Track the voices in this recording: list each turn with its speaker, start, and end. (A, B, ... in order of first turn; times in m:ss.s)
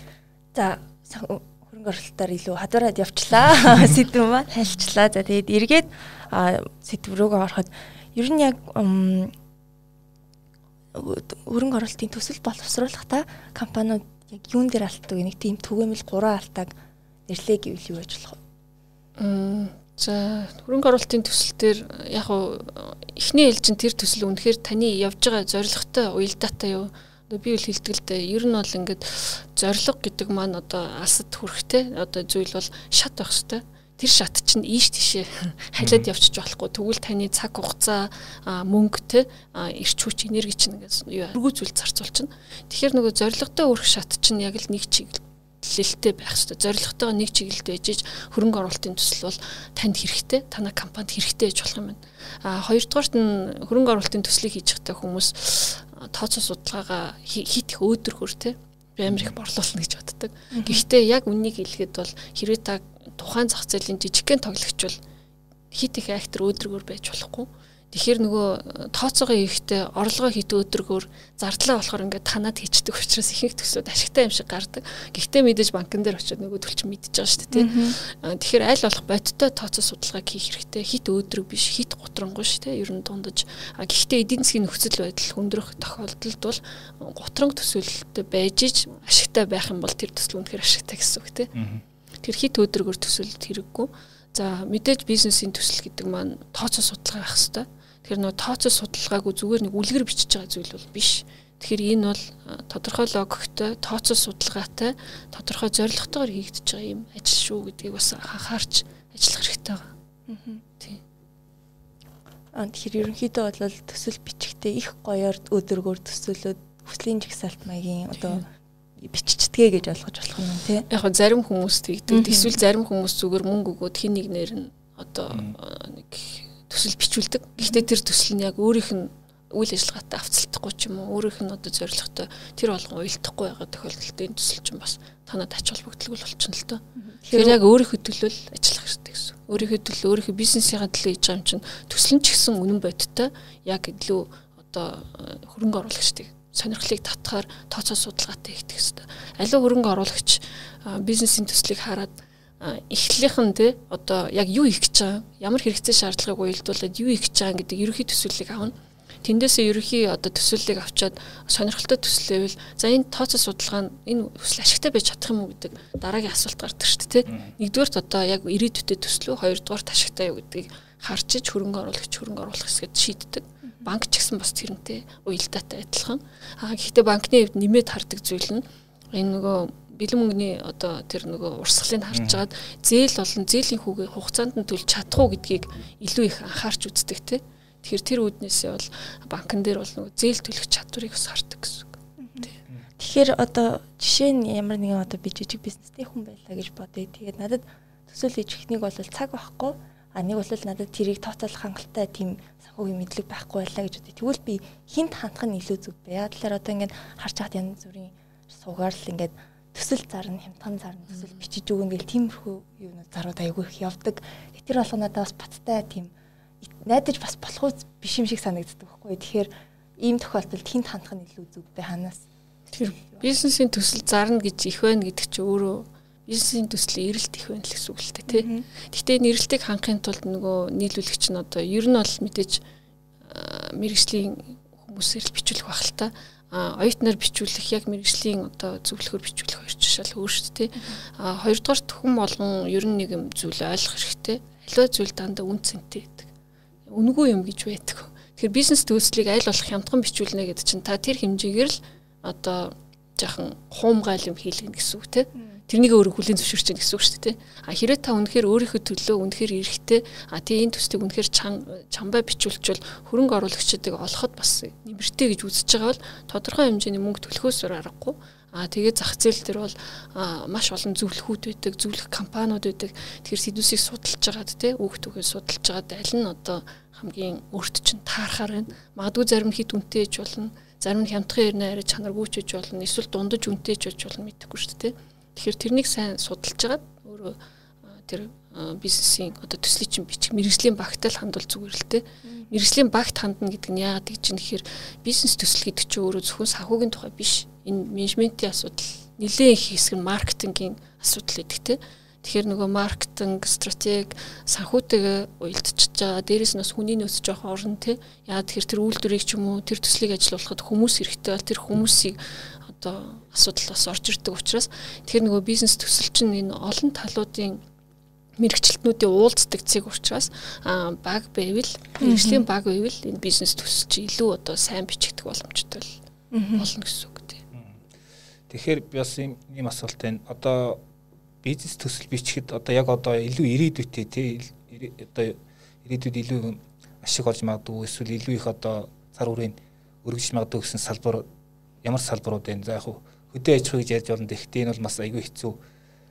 0:00.5-0:09.3 A
0:10.9-0:16.8 A
0:17.3-0:18.4 A
0:19.2-1:05.0 B
0:35.8-0:36.1 C
1:00.5-1:00.8 A
1:05.7-1:31.5 B
1:17.5-1:18.0 A
1:31.6-1:31.8 C
1:32.2-1:49.9 B
1:50.3-1:50.6 A
1:52.5-1:58.5 A
1:59.0-2:00.9 A
2:00.9-3:12.5 B
2:02.1-2:02.5 A
2:17.0-2:17.6 A
3:02.1-3:02.4 C
3:12.2-3:12.5 A
3:13.0-3:42.2 A
3:42.7-3:52.6 B
3:43.0-3:43.2 A
3:48.3-3:48.6 A
3:53.2-4:06.3 B
4:06.9-4:47.4 B
4:48.0-5:17.6 B
5:18.4-5:26.0 B
5:22.0-5:22.5 A
5:26.3-5:26.7 A
5:26.6-5:27.4 B
5:28.5-5:30.8 C
5:31.4-5:41.3 C
5:41.8-5:45.6 C